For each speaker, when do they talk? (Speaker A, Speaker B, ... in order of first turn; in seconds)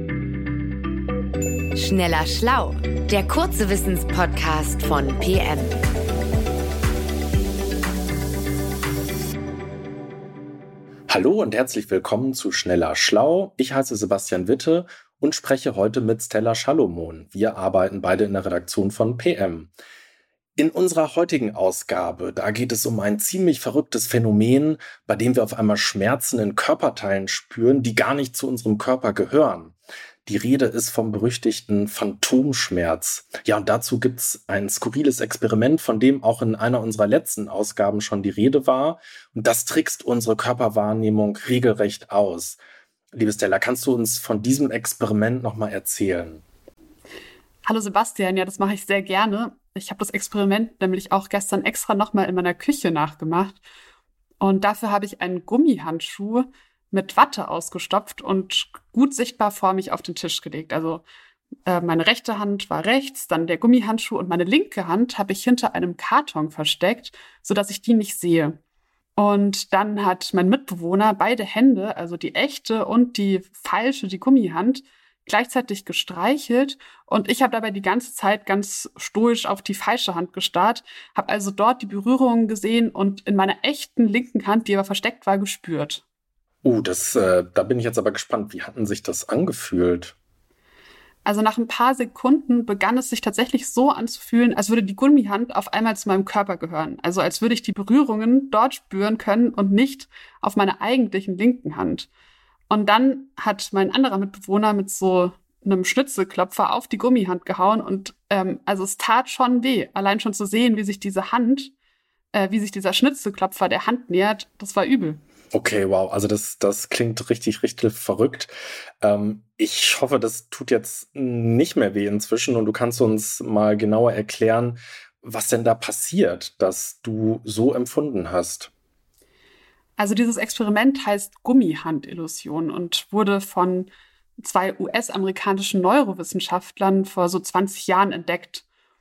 Speaker A: 1.8-5.8
Speaker B: 11.1-19.7, 20.6-42.6, 43.1-46.4, 86.6-90.2, 115.5-128.7
Speaker C: 47.7-53.6, 54.4-61.0, 61.7-68.6, 69.2-86.0, 91.2-102.1, 102.7-111.7, 112.3-115.2, 130.0-138.7